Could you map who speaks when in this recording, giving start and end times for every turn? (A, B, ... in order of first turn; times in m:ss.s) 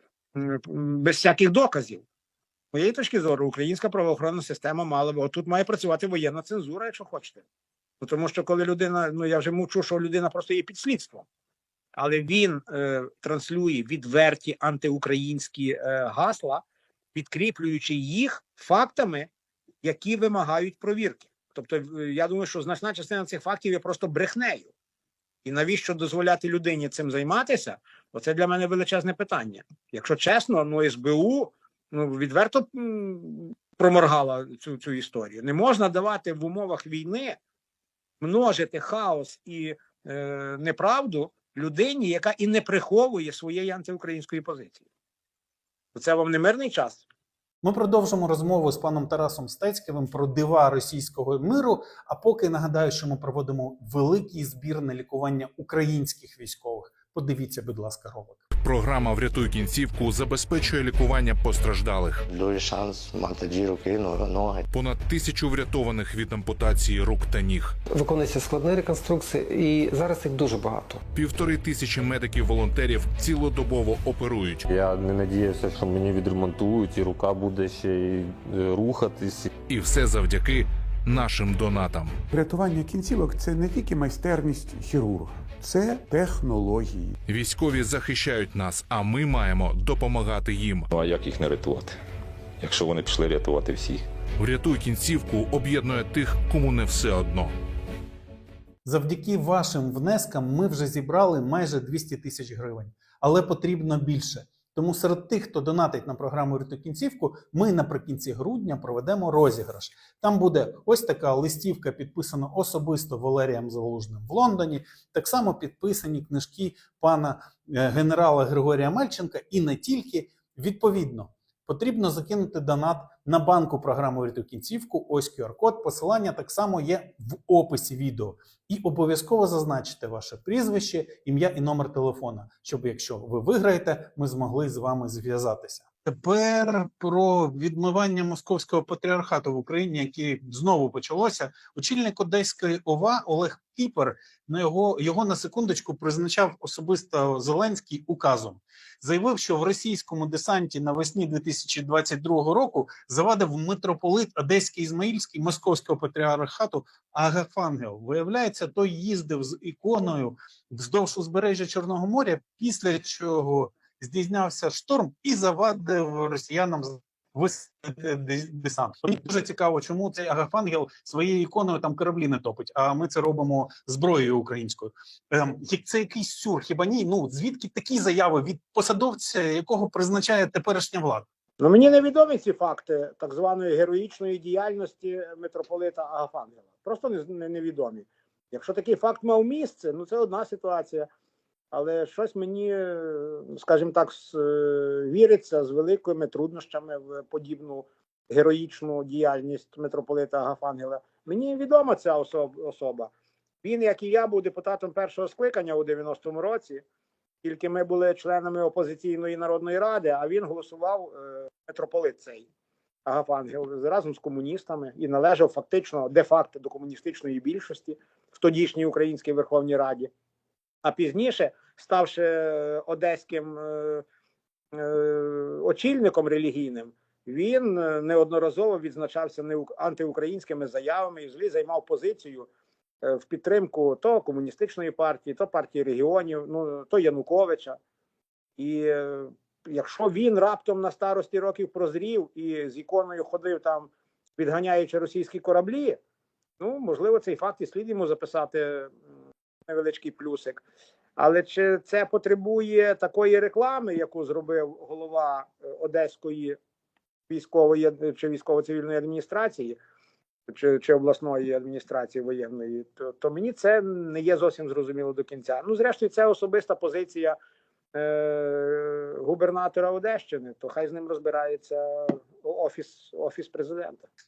0:00.4-0:02.0 A
0:02.7-0:07.4 A
0:08.0-0:11.2 A
0:12.0-0:16.6 A
0:17.2-0:19.3 A
0:19.8-0:24.7 A
0:25.4-0:37.4 A
0:38.2-0:44.8 A
0:46.0-0:47.0 A
0:47.6-0:58.4 B
0:58.6-1:02.2 C
1:02.3-1:04.7 D
1:04.7-1:07.8 C
1:07.9-1:11.0 E
1:11.1-1:14.7 C
1:14.7-1:19.5 F
1:19.7-1:22.2 C
1:22.3-1:27.2 G
1:27.3-1:30.9 C
1:30.9-1:32.0 H
1:32.6-1:34.0 H
1:34.4-1:37.5 C
1:38.8-3:01.3 B
3:01.6-3:11.1 A
3:11.7-3:23.1 A
3:23.6-3:26.8 A
3:27.4-3:32.5 A
3:33.1-3:40.1 A
3:40.8-3:44.0 A
3:44.7-3:52.5 A
3:53.0-3:57.8 A
3:58.6-4:06.0 A
4:06.6-4:08.9 A
4:09.7-4:10.6 A
4:11.2-4:16.6 A
4:17.3-4:19.8 A
4:20.5-4:27.4 A
4:27.9-4:34.0 A